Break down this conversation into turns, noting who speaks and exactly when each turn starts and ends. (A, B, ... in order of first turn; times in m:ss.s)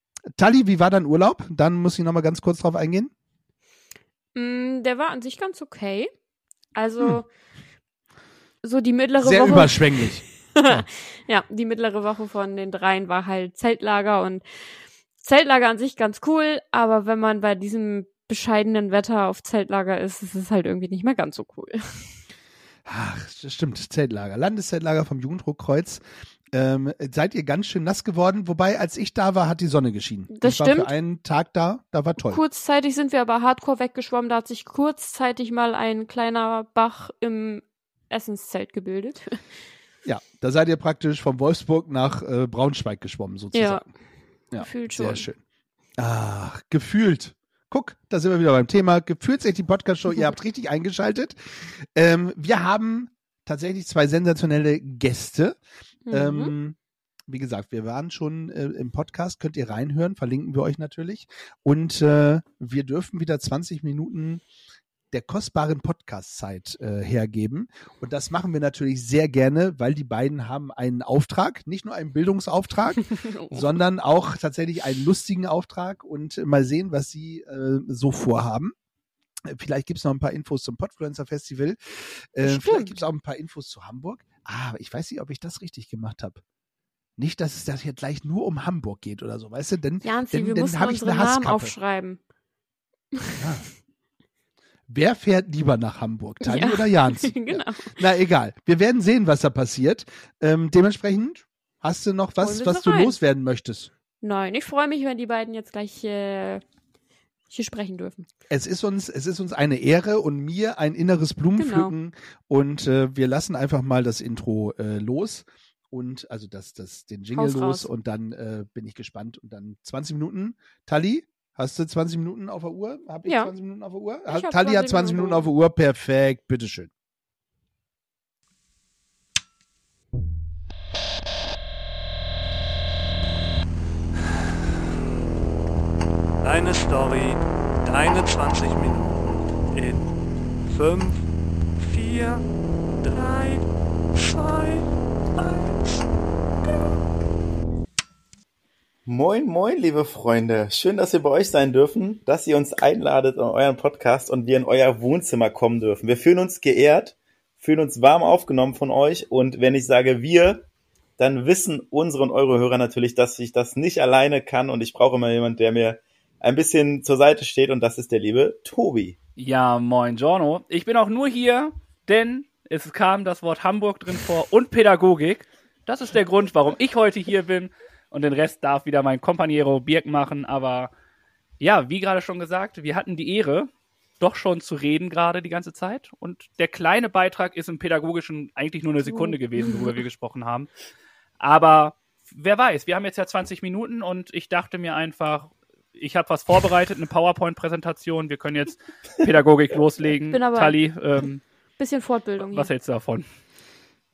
0:00.4-0:03.1 A
0:04.3-0:06.1 B
0:06.8-0:07.3 B
0:08.6-0:14.5 B
0:09.2-0:10.8 A
0:15.2-0:22.1 B
0:22.9-0:32.4 A
0:30.3-0:30.9 B
0:32.3-0:39.5 B
0:40.0-0:43.8 A
0:43.5-0:43.8 B
0:44.5-0:45.4 A
0:44.6-0:45.3 B
0:46.0-0:51.4 A
0:52.0-0:55.6 A
0:56.1-0:56.5 B
0:56.1-0:56.8 A
0:57.3-1:04.4 A
1:05.1-1:18.7 A
1:13.2-1:13.6 B
1:19.5-1:26.4 A
1:22.4-1:23.0 B
1:27.2-1:31.8 A
1:30.0-1:32.2 B
1:33.4-1:33.6 A
1:34.9-1:43.9 A
1:36.4-1:37.9 B
1:42.4-1:43.1 B
1:44.2-1:46.6 B
1:47.5-1:48.3 B
1:48.5-2:06.9 A
1:51.6-1:51.9 B
1:57.3-1:57.9 B
2:03.3-2:03.5 B
2:04.3-2:05.5 B
2:16.4-2:20.1 C
2:20.7-2:22.5 C
2:23.0-2:25.8 C
2:29.1-2:40.6 D
2:41.2-2:49.2 D
2:49.4-3:00.9 E
3:01.6-3:10.7 E
3:09.1-3:09.9 B
3:11.4-3:21.4 E
3:20.3-3:20.8 B
3:21.8-3:22.7 B
3:22.4-3:23.3 E